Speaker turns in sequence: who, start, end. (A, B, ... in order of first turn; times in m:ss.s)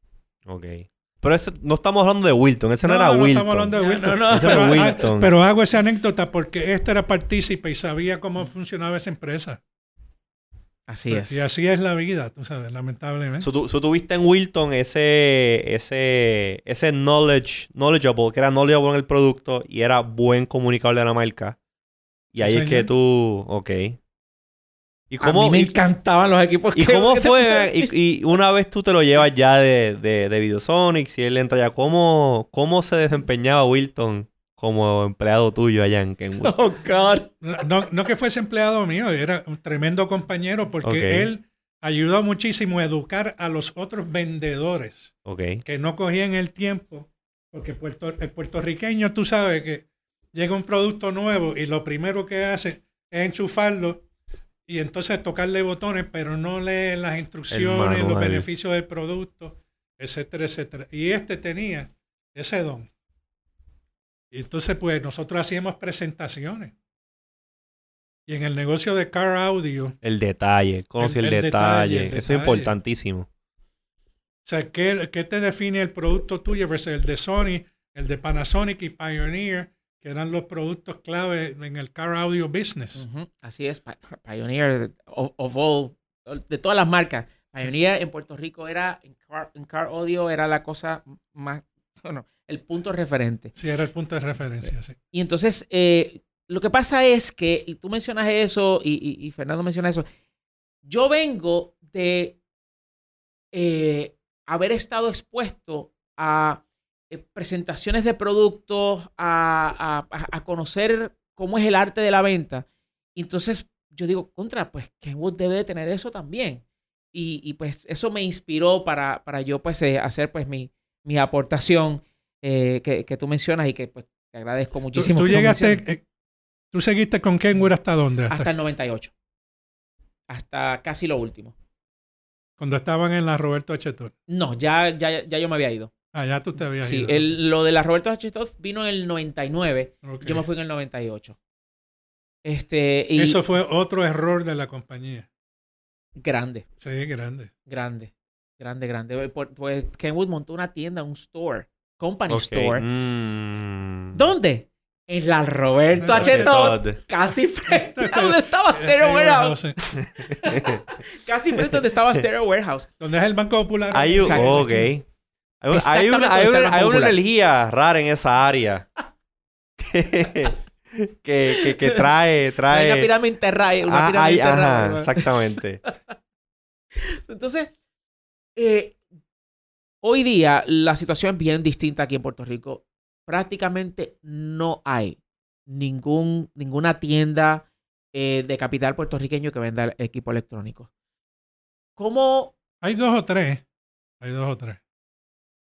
0:00.4-0:03.7 A
0:02.8-0:09.6 B
0:03.8-0:05.0 C
0:04.3-0:05.3 A
0:10.9-0:11.4 C
0:11.1-0:13.5 B
0:13.4-0:21.6 A
0:22.3-0:24.0 A
0:22.4-0:22.9 B
0:25.1-0:25.7 A
0:25.2-0:27.9 C
0:26.7-0:36.5 A
0:36.4-0:37.3 C
0:37.4-0:54.0 B
0:40.8-0:41.3 A
0:45.2-0:45.6 A
0:54.7-1:02.9 B
0:57.5-0:58.5 A
1:04.3-1:06.7 B
1:08.3-1:10.0 B
1:10.0-1:13.3 A
1:11.0-1:12.7 B
1:14.4-1:23.0 B
1:23.0-1:33.5 C
1:33.6-1:35.0 B
1:35.1-1:40.0 C
1:40.8-1:42.4 C
1:43.5-2:05.8 C
2:04.9-2:06.0 B
2:06.7-2:08.5 B
2:08.3-2:09.1 C
2:10.3-2:11.5 C
2:12.6-2:14.1 B
2:14.3-2:15.9 C
2:16.1-2:17.3 B
2:16.8-2:21.4 C
2:20.0-2:20.4 B
2:22.4-2:23.4 C
2:23.2-2:25.3 B
2:26.2-2:26.6 C
2:26.8-2:27.5 B
2:27.7-2:32.8 C
2:32.3-2:34.3 A
2:34.1-2:42.9 C
2:36.0-2:36.8 B
2:36.1-2:37.0 A
2:37.6-2:39.8 B
2:40.0-2:40.8 A
2:41.5-2:42.2 A
2:43.0-2:44.9 B
2:43.9-2:45.0 A
2:44.2-2:44.7 C
2:45.6-2:48.8 A
2:45.7-2:47.2 C
2:49.8-2:53.1 A
2:51.5-2:52.0 C
2:52.7-2:56.1 C
2:53.9-2:55.8 A
2:57.0-2:57.7 C
2:58.6-2:59.0 C
3:00.0-3:10.9 C
3:12.0-3:12.5 C
3:12.8-3:13.6 B
3:14.2-3:14.8 B